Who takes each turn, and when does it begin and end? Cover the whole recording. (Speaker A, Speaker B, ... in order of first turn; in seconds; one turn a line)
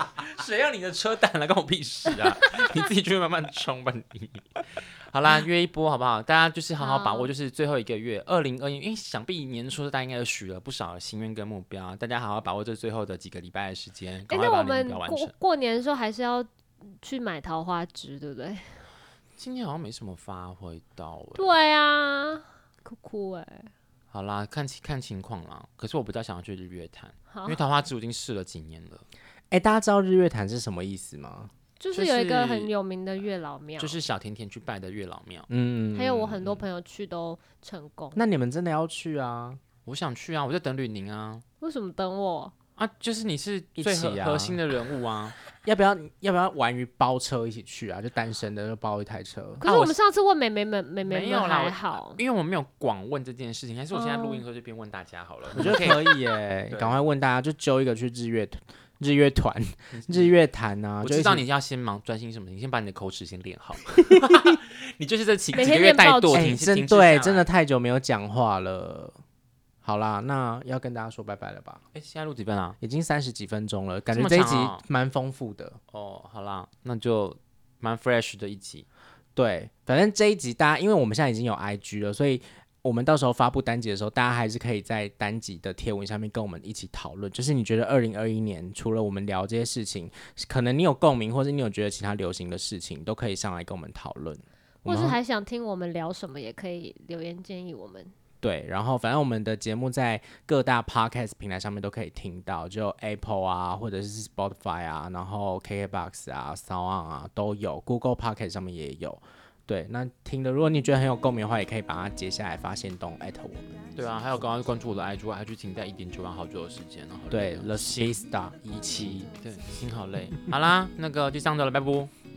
Speaker A: 0.2-4.5
Speaker A: 5.0-15.3
Speaker B: 6.8-7.3
Speaker B: 14.3-16.5
Speaker B: 17.0-18.8
Speaker A: 19.4-21.5
Speaker B: 21.4-23.7
Speaker A: 24.1-29.1
Speaker B: 27.3-27.6
Speaker C: 29.5-31.5
Speaker B: 31.8-34.0
Speaker A: 31.9-32.7
Speaker A: 33.8-35.5
Speaker C: 35.5-36.5
Speaker B: 35.9-38.2
Speaker C: 38.2-39.6
Speaker A: 39.9-41.5
Speaker B: 41.6-42.5
Speaker A: 42.8-45.4
Speaker C: 43.8-44.6
Speaker C: 45.6-49.6
Speaker B: 49.6-52.2
Speaker A: 49.6-50.0
Speaker A: 51.0-56.0
Speaker B: 53.9-54.4
Speaker C: 55.6-61.4
Speaker B: 55.6-56.2
Speaker A: 56.7-57.0
Speaker A: 59.9-60.4
Speaker A: 61.0-67.5
Speaker B: 65.5-66.6
Speaker C: 66.3-69.2
Speaker C: 69.8-71.8
Speaker A: 71.9-72.8
Speaker C: 72.8-75.8
Speaker A: 74.1-74.8
Speaker A: 75.9-78.9
Speaker C: 79.3-95.2
Speaker B: 94.8-98.1
Speaker C: 98.4-113.7
Speaker A: 113.9-118.2
Speaker C: 117.3-119.3
Speaker A: 118.7-122.1